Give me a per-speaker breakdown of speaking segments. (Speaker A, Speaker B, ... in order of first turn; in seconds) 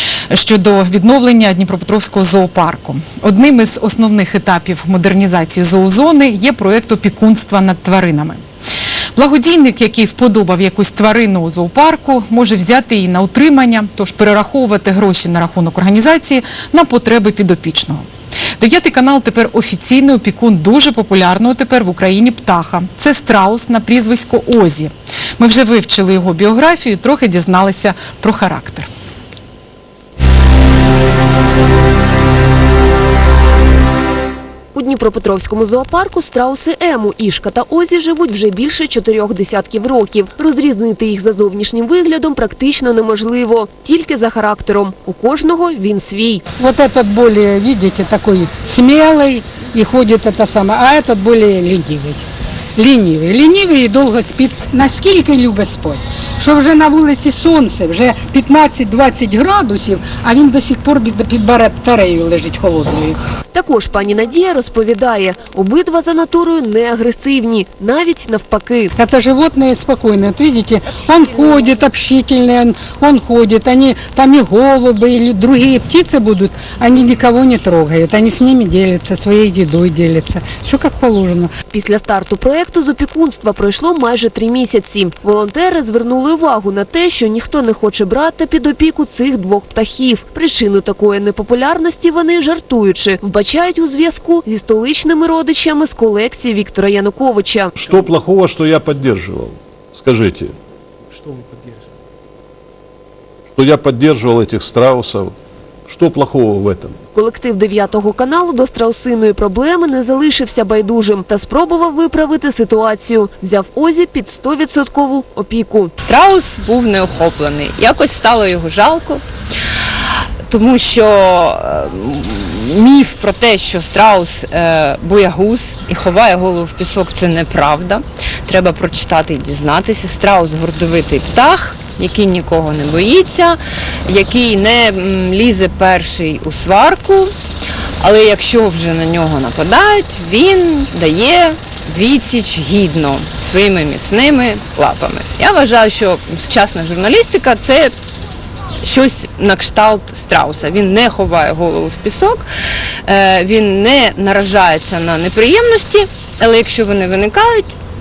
Speaker A: 0.3-8.4, 9.2-18.0, 18.6-28.9
Speaker B: 34.7-46.4, 63.5-68.9, 81.7-97.7, 107.1-115.9
Speaker C: 46.6-52.2, 52.8-63.2, 69.0-81.5
Speaker D: 97.8-100.5, 103.5-105.3, 105.9-107.0
Speaker E: 116.0-119.2, 120.5-137.3, 138.0-147.9, 148.8-152.4, 153.0-157.7